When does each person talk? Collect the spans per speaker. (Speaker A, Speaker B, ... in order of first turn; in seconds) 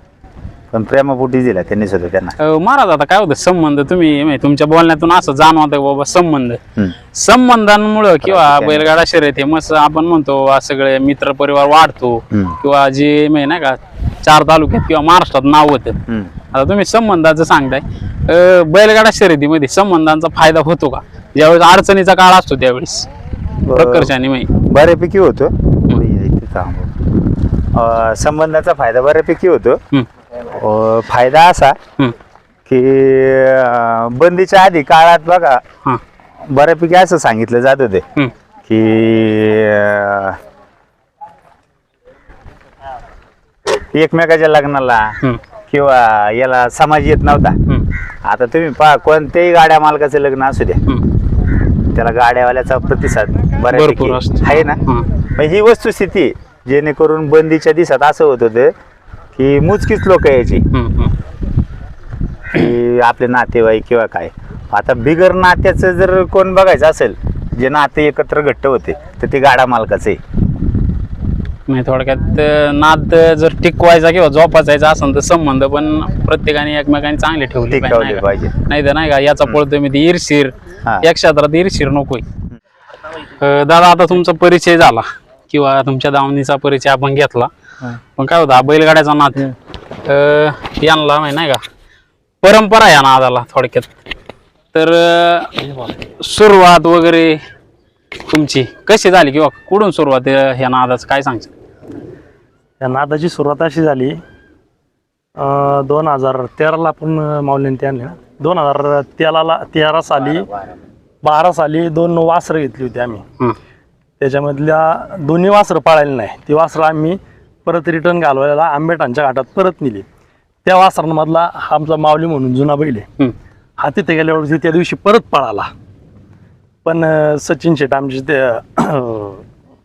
Speaker A: 0.7-2.4, 8.2-8.9, 12.3-12.6, 16.1-16.3, 23.6-29.8, 30.5-31.8, 32.6-35.6, 36.5-38.0, 38.6-40.4, 43.9-47.6, 48.2-50.8, 51.9-58.7, 59.4-60.6, 62.5-70.2, 77.7-78.5
Speaker B: 2.4-6.6, 7.1-16.0, 16.5-23.1, 23.7-24.5, 53.7-55.1, 60.7-61.1, 71.7-82.2, 83.2-91.6, 92.4-93.9, 94.7-97.4, 98.3-101.5
Speaker C: 102.8-104.2, 105.3-110.5, 111.2-113.2, 114.2-120.0, 120.6-123.1, 123.8-125.7, 126.8-129.4